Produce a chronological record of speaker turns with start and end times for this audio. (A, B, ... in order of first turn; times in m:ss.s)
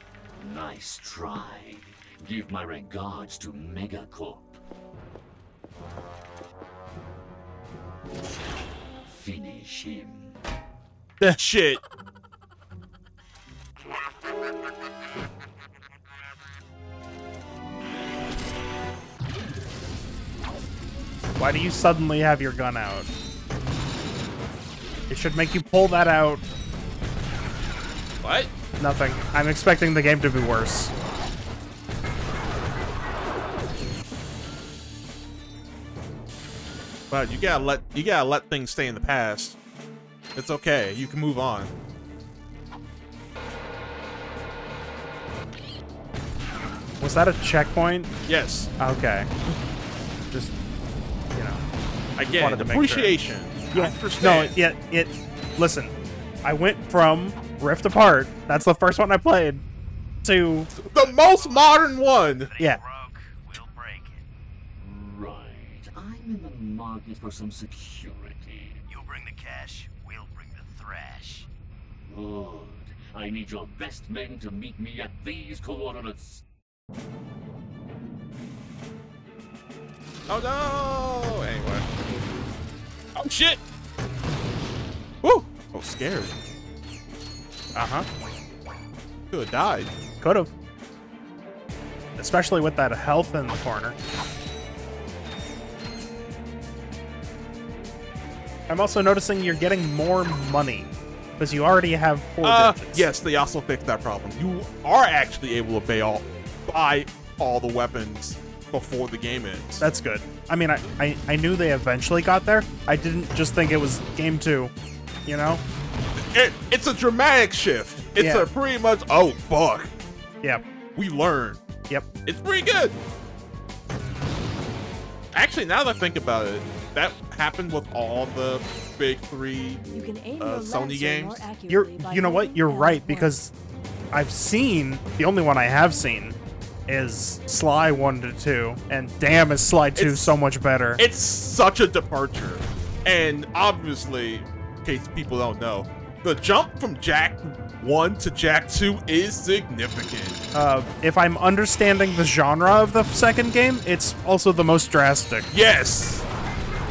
0:00.4-0:04.5 A
0:09.0-0:10.3 A
0:11.2-0:11.8 B
0:21.4-0:23.1 C
0:25.1-0:26.4 C
0:28.2-0:28.5 B
0:28.8-0:30.9 C
0:37.1-0:39.6 B
0:40.3-0:41.7 B
0:47.0-0:48.1 C
0:48.2-0:48.7 B
0:48.8-0:49.3 C
0:51.3-0:51.6 C
0:52.2-0:54.6 B
0:52.2-0:53.2 C
0:53.7-0:59.6 C
1:00.2-1:00.7 C
1:00.8-1:02.5 B
1:00.9-1:04.2 D
1:04.8-1:08.9 A
1:08.9-1:11.5 D
1:12.1-1:16.4 A
1:20.3-1:21.8 B
1:23.2-1:23.6 B
1:25.2-1:26.3 B
1:27.7-1:28.0 C
1:29.3-1:29.9 B
1:30.2-1:30.5 C
1:32.2-1:34.0 C
1:38.7-1:43.1 C
1:42.4-1:49.8 B
1:49.8-1:54.7 C
1:55.2-1:55.6 C
1:56.2-1:59.9 B
1:58.2-1:58.5 C
2:00.9-2:01.6 B
2:02.2-2:03.0 B
2:05.3-2:09.8 B
2:09.9-2:13.4 E
2:10.4-2:11.5 B
2:11.7-2:13.5 C
2:14.1-2:16.4 C
2:16.9-2:21.0 C
2:20.0-2:20.4 B
2:21.0-2:30.4 B
2:30.5-2:35.5 C
2:35.5-2:36.2 B